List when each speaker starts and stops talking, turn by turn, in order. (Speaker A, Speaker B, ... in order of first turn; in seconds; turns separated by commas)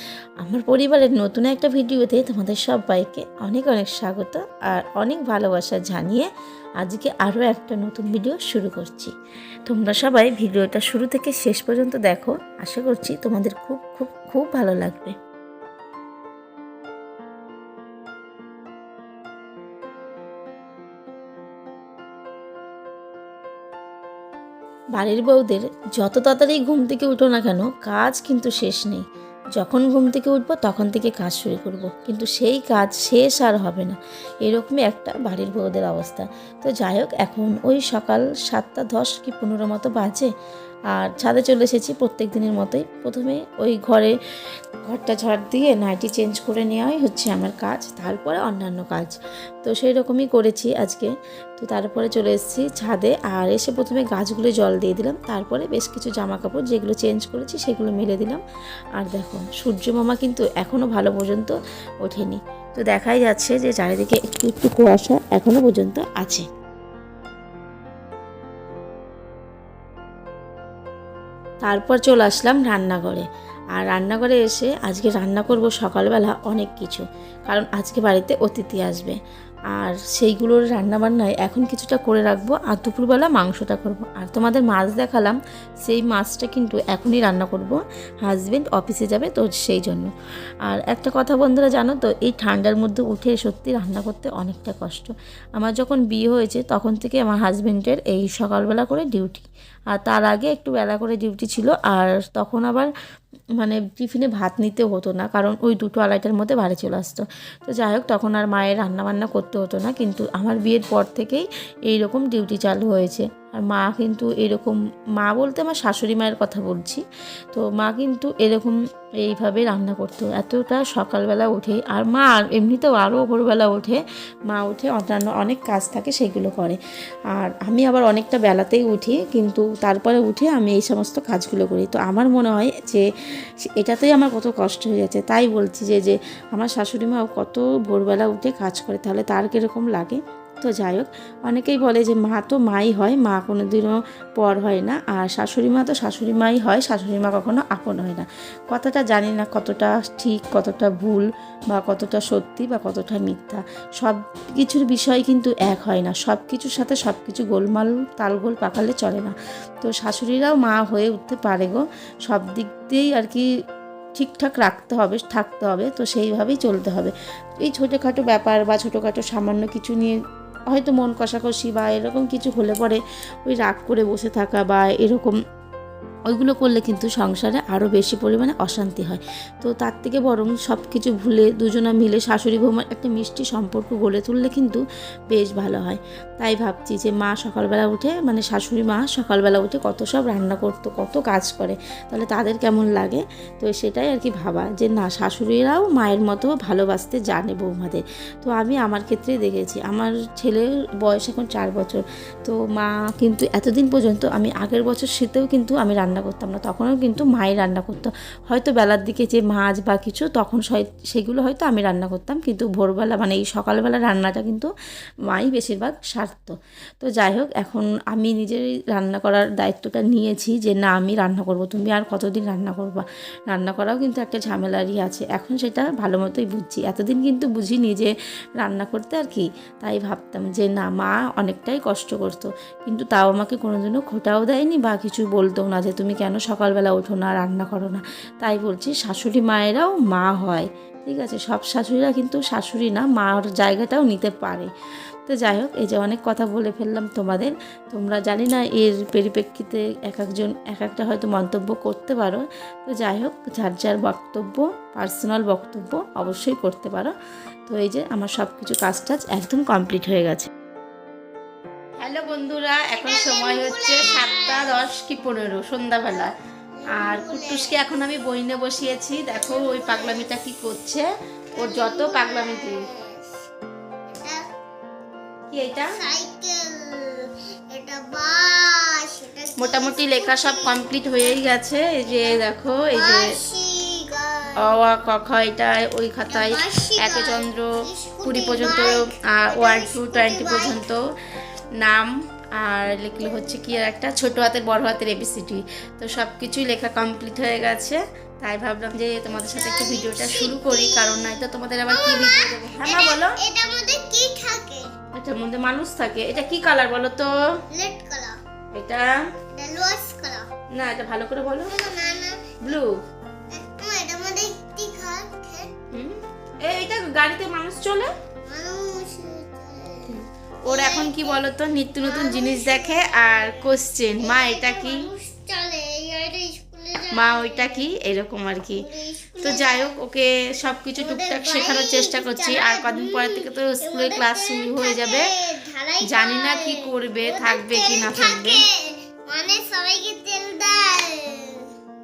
Speaker A: 0.4-6.3, Speaker A: 6.8-9.1, Speaker A: 9.7-15.2, Speaker A: 25.0-29.1, Speaker A: 29.6-40.3, Speaker A: 40.9-44.1, Speaker A: 44.9-58.4, Speaker A: 59.0-66.5, Speaker A: 71.6-79.2, Speaker A: 79.8-90.1, Speaker A: 90.7-102.9, Speaker A: 103.6-117.0, Speaker A: 117.5-124.0, Speaker A: 124.5-126.8, Speaker A: 127.3-133.1, Speaker A: 133.8-163.5, Speaker A: 164.2-170.2, Speaker A: 170.7-175.3, Speaker A: 176.3-214.7, Speaker A: 215.3-244.7, Speaker A: 245.3-257.1, Speaker A: 257.7-260.5, Speaker A: 262.0-266.3, Speaker B: 263.0-264.8, Speaker B: 266.1-267.9, Speaker A: 266.9-272.9, Speaker B: 269.4-270.4, Speaker B: 271.6-273.4, Speaker B: 274.2-274.5, Speaker A: 275.5-276.0, Speaker B: 275.8-281.5, Speaker A: 279.6-283.3, Speaker B: 282.1-282.4, Speaker B: 282.9-284.8, Speaker A: 284.6-291.0, Speaker B: 286.2-290.8, Speaker A: 291.8-303.4, Speaker B: 299.3-304.9, Speaker A: 305.1-307.3, Speaker B: 307.7-308.4, Speaker A: 308.8-309.2, Speaker B: 309.5-310.5, Speaker A: 310.7-311.7, Speaker B: 311.7-312.6, Speaker A: 312.6-313.0, Speaker B: 313.5-315.7, Speaker A: 315.9-318.1, Speaker B: 318.4-321.5, Speaker A: 320.1-325.1, Speaker B: 322.0-327.9, Speaker A: 327.1-328.9, Speaker B: 328.7-329.9, Speaker A: 329.4-335.3, Speaker B: 331.0-341.7, Speaker A: 336.1-338.6